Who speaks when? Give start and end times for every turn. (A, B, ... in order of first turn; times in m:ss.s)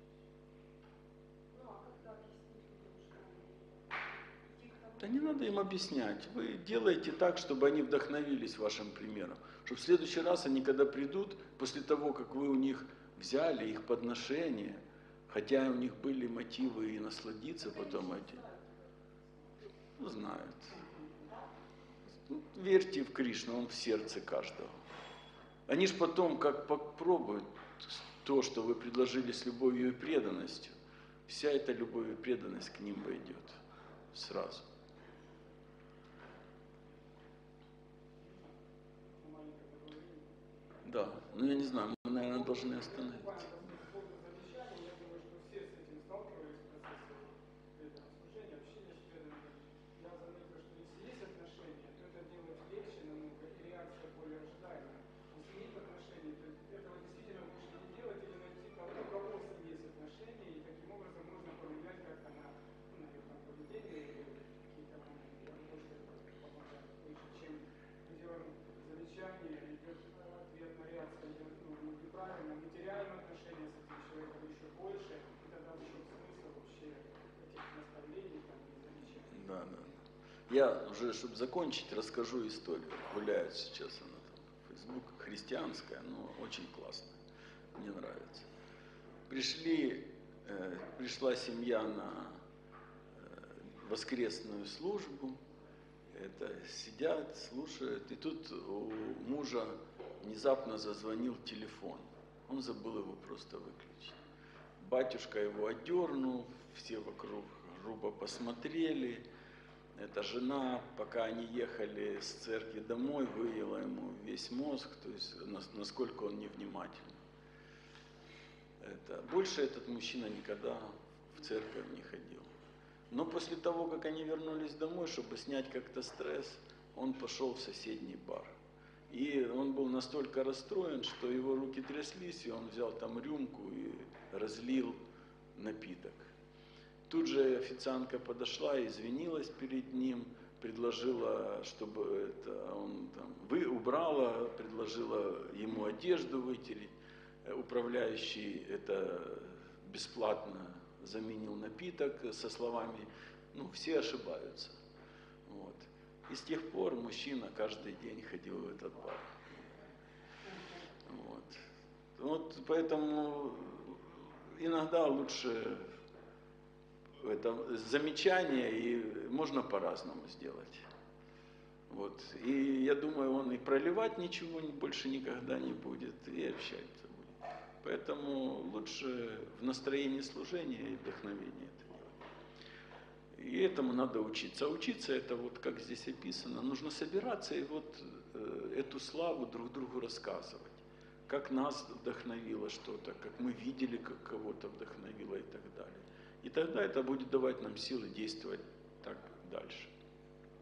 0:01.5-0:05.7 A
0:05.0-0:18.4 B
0:17.6-0:18.8 A
0:20.0-0:20.8 B
0:22.3-0:24.8 B
0:25.7-0:33.6 B
0:34.1-0:34.6 B
0:38.2-0:38.5 C
0:39.1-0:40.3 C
0:40.8-0:43.4 B
0:42.3-1:19.4 C
1:19.3-1:19.9 B
1:20.5-1:27.2 B
1:27.7-1:28.5 B
1:29.3-1:32.4 B
1:33.2-1:35.4 B
1:36.1-1:44.2 B
1:44.8-1:49.2 B
1:50.0-1:57.2 B
1:58.8-2:02.5 B
2:03.1-2:08.6 B
2:09.1-2:15.0 B
2:15.5-2:16.3 B
2:17.1-2:26.9 B
2:27.4-2:34.8 B
2:35.5-2:39.4 B
2:41.0-2:45.9 B
2:47.2-2:50.8 B
2:51.9-3:02.2 B
3:03.3-3:19.9 B